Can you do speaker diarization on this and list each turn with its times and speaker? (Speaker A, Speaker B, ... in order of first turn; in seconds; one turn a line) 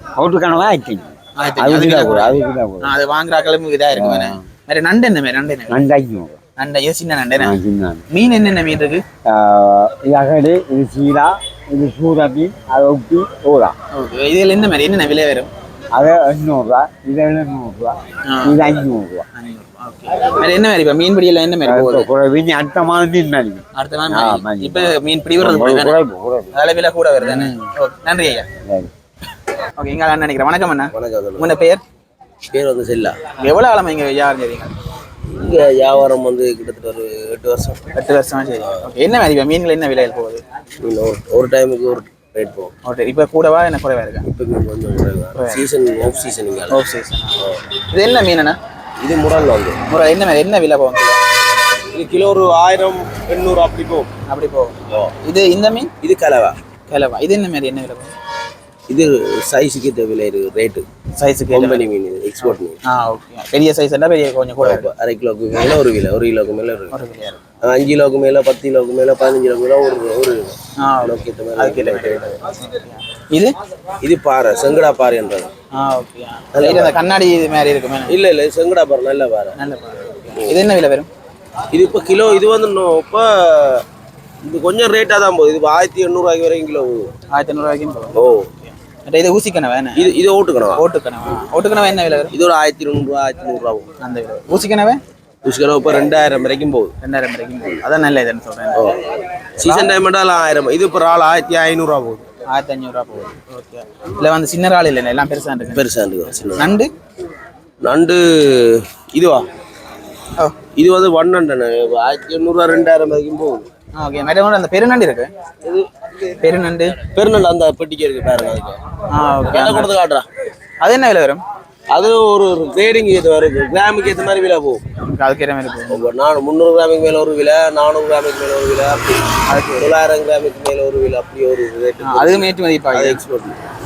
Speaker A: 0.2-3.0
Speaker B: 1.4-5.8
Speaker A: 3.9-4.4
Speaker A: 5.7-6.4
Speaker B: 6.6-7.6
Speaker A: 7.4-8.1
Speaker B: 8.1-9.0
Speaker A: 9.2-13.8
Speaker B: 13.9-15.5
Speaker A: 15.9-19.2
Speaker B: 18.2-18.8
Speaker B: 19.4-22.1
Speaker A: 21.6-26.5
Speaker B: 23.8-26.0
Speaker B: 26.5-28.5
Speaker A: 27.2-27.6
Speaker B: 29.8-31.8
Speaker C: 30.9-31.6
Speaker C: 32.5-33.2
Speaker B: 33.4-34.7
Speaker C: 35.3-37.9
Speaker B: 37.9-40.4
Speaker C: 40.8-42.7
Speaker B: 42.8-44.2
Speaker C: 44.3-46.8
Speaker B: 45.4-45.7
Speaker B: 46.7-48.6
Speaker C: 49.0-49.8
Speaker B: 49.9-51.2
Speaker C: 51.9-54.1
Speaker B: 54.3-55.9
Speaker C: 56.0-56.6
Speaker B: 56.9-58.1
Speaker C: 58.9-60.9
Speaker B: 61.2-61.9
Speaker C: 61.5-62.8
Speaker B: 62.9-64.9
Speaker C: 64.6-66.9
Speaker B: 66.9-67.5
Speaker C: 67.6-72.3
Speaker B: 70.8-73.5
Speaker C: 74.0-75.5
Speaker B: 75.7-78.2
Speaker C: 76.5-77.0
Speaker C: 78.1-79.5
Speaker B: 79.6-81.1
Speaker C: 81.7-83.8
Speaker C: 84.4-87.1
Speaker B: 87.3-90.2
Speaker C: 88.2-88.5
Speaker C: 90.0-90.8
Speaker B: 90.8-92.3
Speaker C: 92.3-93.9
Speaker B: 94.0-95.0
Speaker C: 95.5-96.9
Speaker B: 97.0-98.9
Speaker C: 99.6-102.3
Speaker B: 99.6-100.0
Speaker B: 102.5-105.8
Speaker C: 105.7-106.7
Speaker B: 106.6-106.9
Speaker C: 107.8-109.5
Speaker C: 110.8-113.7
Speaker B: 114.0-115.3
Speaker B: 116.4-117.0
Speaker C: 117.1-118.8
Speaker B: 119.1-119.9
Speaker C: 119.5-120.3
Speaker B: 120.8-121.4
Speaker C: 121.9-124.8
Speaker B: 125.0-126.1
Speaker C: 125.9-133.6
Speaker B: 129.5-130.0
Speaker B: 132.0-133.2